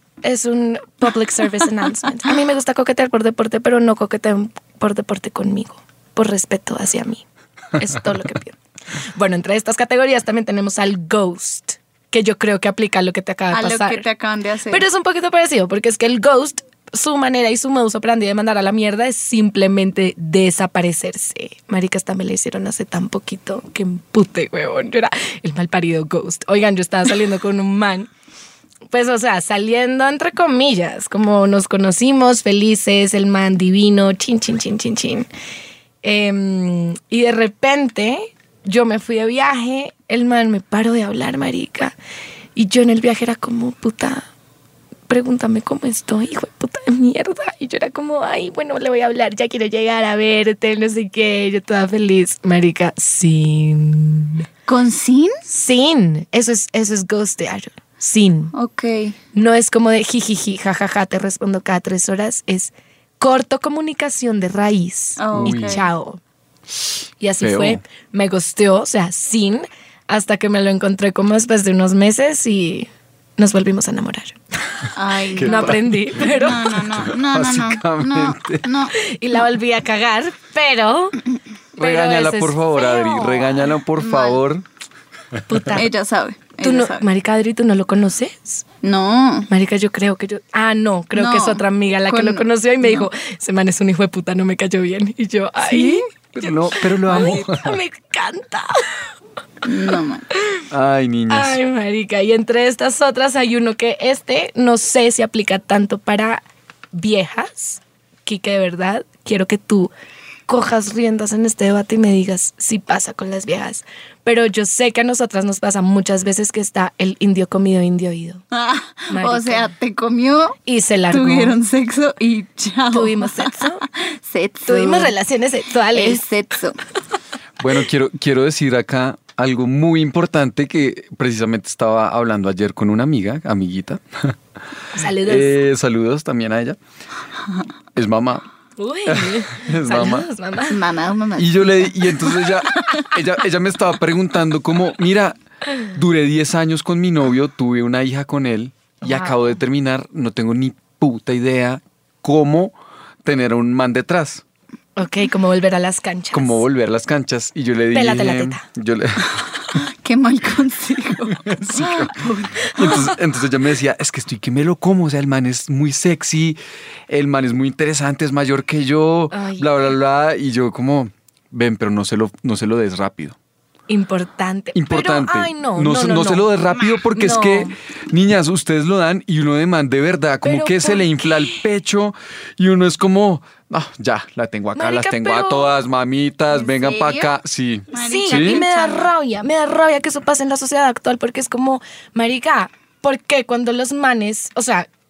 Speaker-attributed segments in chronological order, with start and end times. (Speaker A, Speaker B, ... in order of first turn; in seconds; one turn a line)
Speaker A: 0.2-14.1
Speaker B: 13.5-14.8
Speaker A: 14.7-28.1
Speaker A: 28.9-35.3
Speaker A: 36.0-42.0
Speaker A: 42.6-44.3
Speaker A: 45.1-54.5
Speaker B: 54.7-55.4
Speaker A: 55.5-58.5
Speaker B: 58.5-59.2
Speaker A: 59.3-66.2
Speaker B: 65.2-65.9
Speaker C: 65.3-65.8
Speaker A: 67.2-74.9
Speaker C: 67.4-67.8
Speaker B: 75.0-79.0
Speaker C: 75.3-78.7
Speaker A: 75.4-76.8
Speaker A: 79.0-81.2
Speaker C: 81.8-84.7
Speaker A: 81.8-83.8
Speaker B: 84.0-84.4
Speaker A: 85.5-85.9
Speaker B: 85.7-87.0
Speaker A: 86.6-88.6
Speaker B: 88.8-89.5
Speaker A: 89.5-99.1
Speaker B: 91.2-93.1
Speaker B: 95.7-96.0
Speaker C: 96.3-97.8
Speaker B: 99.6-100.3
Speaker C: 100.7-101.6
Speaker A: 101.3-109.9
Speaker A: 110.5-118.4
Speaker B: 118.5-125.1
Speaker A: 119.1-119.7
Speaker A: 120.7-121.6
Speaker A: 122.9-123.8
Speaker A: 124.7-126.2
Speaker B: 125.9-126.8
Speaker C: 127.6-134.4
Speaker A: 134.9-135.6
Speaker C: 135.2-136.8
Speaker C: 137.9-138.5
Speaker A: 138.8-140.8
Speaker C: 139.1-140.3
Speaker B: 140.7-143.1
Speaker C: 141.4-154.4
Speaker A: 149.0-149.6
Speaker A: 155.0-156.6
Speaker C: 156.3-159.4
Speaker A: 157.9-158.6
Speaker B: 159.4-163.1
Speaker C: 161.3-166.6
Speaker C: 167.1-173.4
Speaker A: 169.3-169.7
Speaker A: 173.9-177.7
Speaker C: 174.7-188.6
Speaker A: 180.4-181.6
Speaker A: 184.8-185.8
Speaker B: 186.5-187.3
Speaker B: 187.9-189.1
Speaker A: 187.9-194.9